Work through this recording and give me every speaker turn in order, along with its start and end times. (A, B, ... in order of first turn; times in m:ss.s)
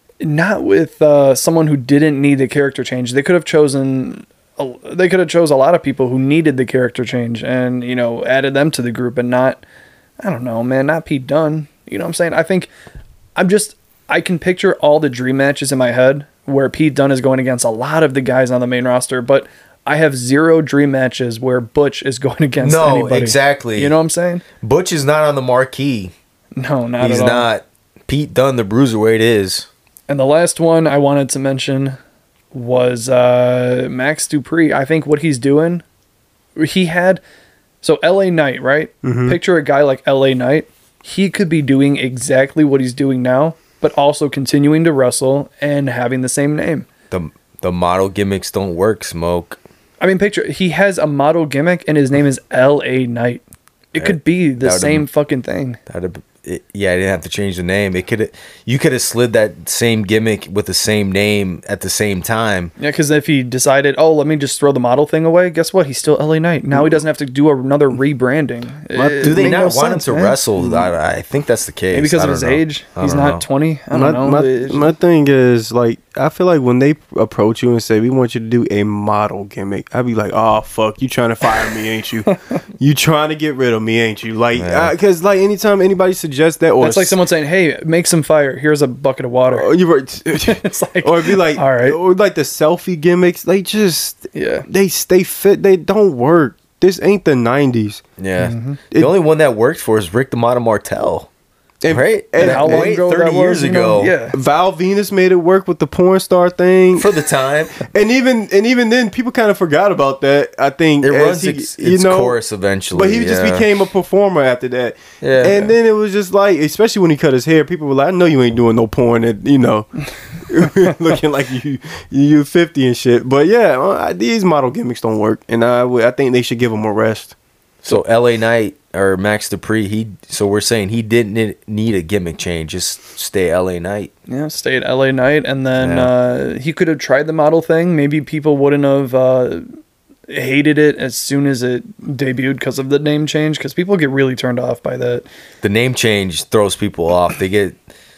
0:00.2-0:09.6 A
0:10.2-0:12.7 A
0:13.4-0:24.4 A
0:22.6-0:24.0 B
0:24.6-0:26.1 B
0:26.6-0:27.5 A
0:27.0-0:29.7 B
0:30.1-0:32.0 A
0:32.5-0:35.8 A
0:36.6-0:37.2 A
0:37.8-0:46.9 A
0:39.0-0:39.4 C
0:47.1-0:49.6 B
0:50.0-0:55.8 A
0:54.0-0:55.1 B
0:55.9-1:02.7 B
1:02.8-1:10.4 A
1:08.9-1:09.6 C
1:09.2-1:13.4 B
1:11.9-1:14.9 A
1:13.9-1:27.2 C
1:24.6-1:24.9 B
1:26.8-1:29.7 A
1:29.5-1:38.0 C
1:30.3-1:32.0 A
1:34.4-1:34.7 A
1:38.2-1:41.3 B
1:38.4-1:38.8 A
1:41.8-1:43.0 C
1:41.9-1:44.2 B
1:42.4-1:44.4 A
1:44.3-1:47.1 C
1:47.0-1:47.8 B
1:47.8-1:52.4 C
1:51.0-1:53.7 B
1:52.9-1:59.9 C
1:55.2-1:55.7 B
2:00.4-2:07.4 C
2:07.8-2:14.1 B
2:14.3-2:19.7 A
2:15.8-2:16.1 B
2:20.3-2:25.3 A
2:25.6-2:27.8 B